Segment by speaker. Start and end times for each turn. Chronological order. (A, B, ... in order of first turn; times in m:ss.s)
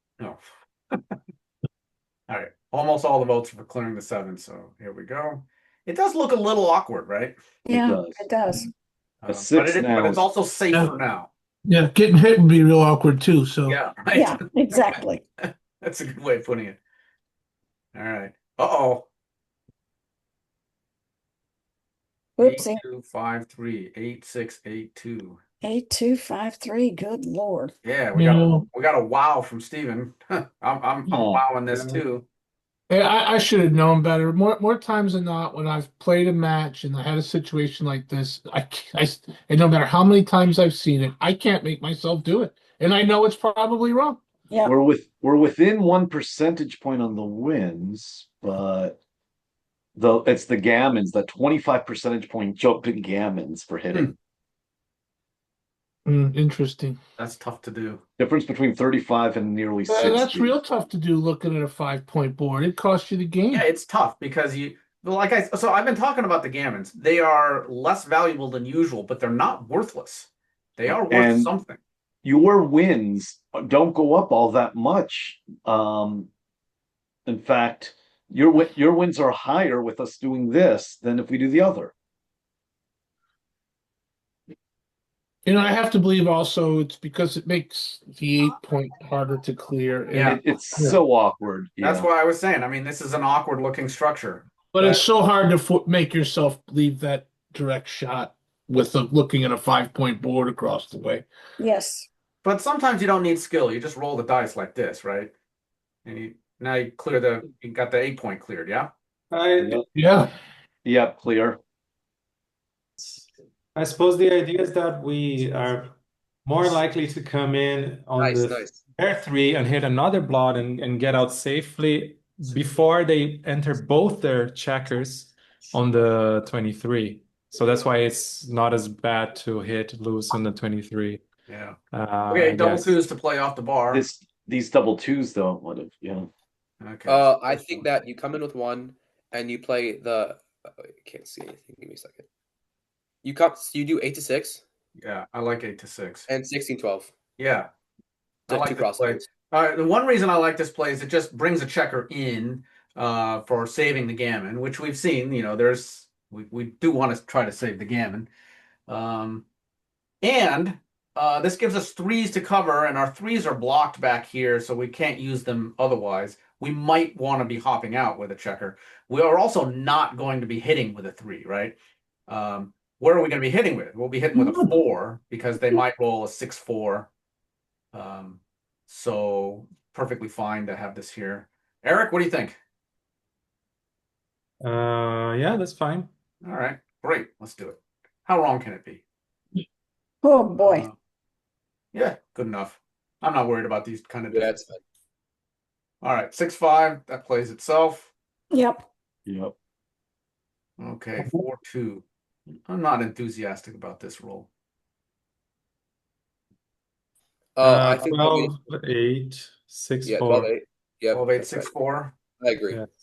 0:02.3-0:07.4 A
0:07.6-0:08.7 B
0:07.7-0:08.2 C
0:09.2-0:11.3 A
0:09.3-0:10.2 C
0:11.6-0:13.8 D
0:13.7-0:16.8 A
0:14.1-0:15.2 B
0:17.9-0:19.1 A
0:22.4-0:22.8 B
0:22.4-0:25.4 A
0:25.6-0:27.7 B
0:27.8-0:32.2 A
0:28.1-0:28.7 D
0:31.0-0:31.4 C
0:31.7-0:32.0 E
0:32.9-0:44.2 D
0:44.6-0:49.0 C
0:50.0-0:54.1 C
0:56.0-0:57.0 D
0:57.2-0:58.0 A
0:58.2-1:00.6 C
0:59.9-1:03.6 D
1:03.5-1:11.8 A
1:10.8-1:11.5 C
1:12.2-1:16.3 C
1:17.3-1:21.9 C
1:25.4-1:31.0 D
1:30.1-1:30.4 A
1:30.2-1:32.1 C
1:31.8-1:35.0 A
1:34.7-1:41.2 D
1:41.6-1:42.1 B
1:42.4-1:45.3 A
1:46.0-1:48.9 A
1:49.3-1:49.8 E
1:49.6-1:49.8 C
1:49.9-1:50.3 D
1:50.8-1:51.6 C
1:53.7-2:11.2 E
1:58.2-1:58.8 F
2:11.5-2:11.8 A
2:11.9-2:13.0 E
2:12.3-2:14.1 A
2:13.9-2:16.3 C
2:16.8-2:17.9 A
2:17.0-2:22.2 F
2:23.2-2:24.6 F
2:25.0-2:26.3 A
2:26.3-2:27.1 F
2:27.4-2:27.7 A
2:28.5-2:29.2 F
2:28.5-2:38.3 A
2:38.9-2:39.4 A
2:40.2-2:51.7 A
2:52.3-2:57.1 A
2:57.9-3:02.6 A
3:04.6-3:06.1 E
3:06.4-3:09.0 A
3:10.2-3:10.9 B
3:10.6-3:10.9 A
3:11.9-3:14.6 A
3:14.3-3:14.8 F
3:16.0-3:18.1 A
3:18.5-3:18.8 B
3:19.2-3:19.5 C
3:20.8-3:22.0 A
3:22.7-3:24.5 A
3:27.6-3:28.5 F
3:27.6-3:30.5 E
3:30.0-3:31.7 F
3:31.1-3:32.1 A
3:32.4-3:32.8 F